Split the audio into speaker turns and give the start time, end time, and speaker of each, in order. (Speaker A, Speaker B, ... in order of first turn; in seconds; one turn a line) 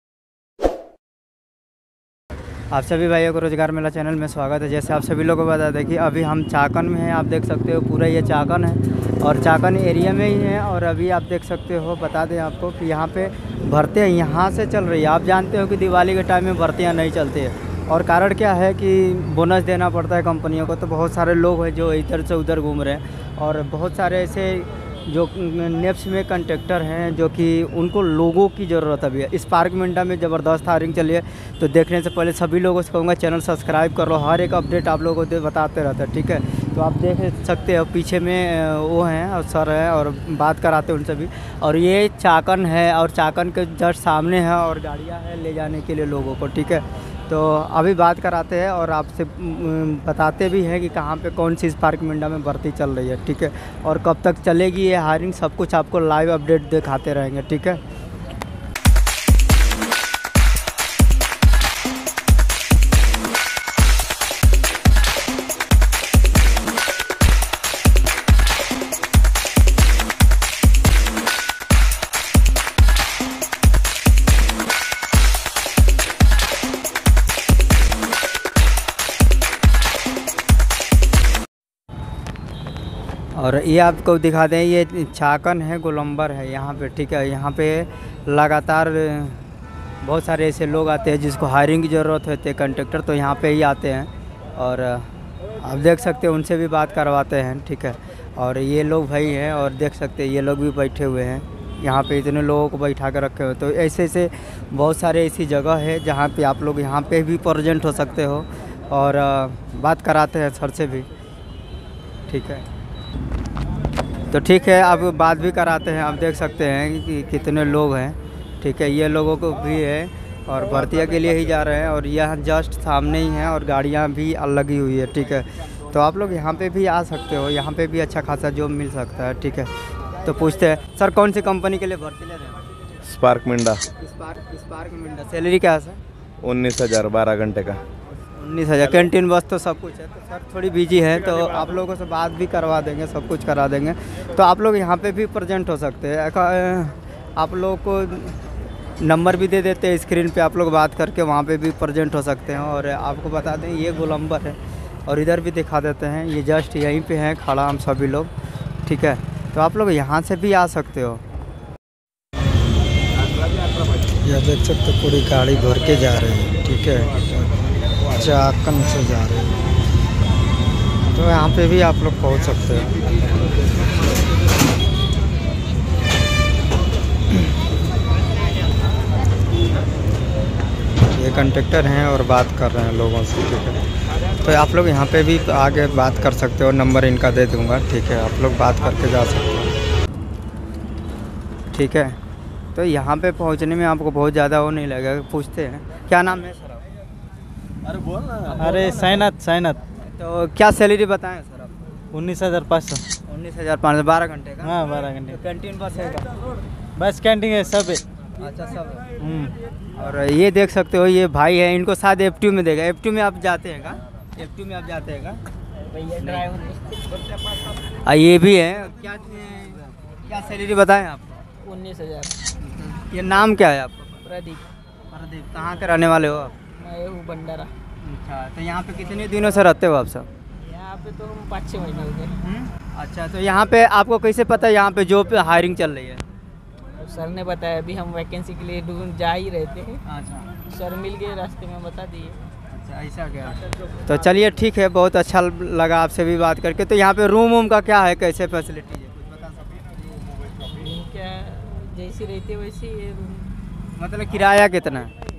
Speaker A: 2.7-57.8
Speaker A: 83.3-89.4
Speaker A: 90.0-111.1
Speaker A: 112.3-112.7
Speaker A: 114.3-132.6
Speaker B: 133.0-133.8
Speaker A: 134.0-136.0
Speaker B: 136.4-137.8
Speaker A: 138.3-148.4
Speaker A: 149.0-158.3
Speaker A: 158.8-161.2
Speaker A: 164.2-167.5
Speaker A: 168.1-169.7
Speaker A: 171.1-173.1
Speaker A: 181.1-183.8
Speaker A: 184.4-189.8
Speaker A: 191.7-192.2
Speaker A: 192.8-196.8
Speaker C: 198.5-199.8
Speaker A: 198.8-199.1
Speaker A: 200.0-201.7
Speaker C: 202.1-203.0
Speaker A: 203.3-206.3
Speaker C: 204.6-205.4
Speaker C: 207.0-208.0
Speaker A: 208.4-209.1
Speaker C: 209.2-209.5
Speaker A: 209.9-215.4
Speaker D: 215.9-217.2
Speaker A: 218.0-221.4
Speaker D: 221.6-222.4
Speaker A: 222.6-224.2
Speaker D: 224.2-224.7
Speaker A: 225.1-226.6
Speaker D: 226.8-227.7
Speaker A: 228.0-230.3
Speaker D: 230.6-232.4
Speaker A: 232.4-236.2
Speaker D: 237.0-240.0
Speaker A: 240.1-240.5
Speaker D: 240.7-242.4
Speaker A: 242.7-249.9
Speaker D: 250.7-253.5
Speaker A: 254.0-255.1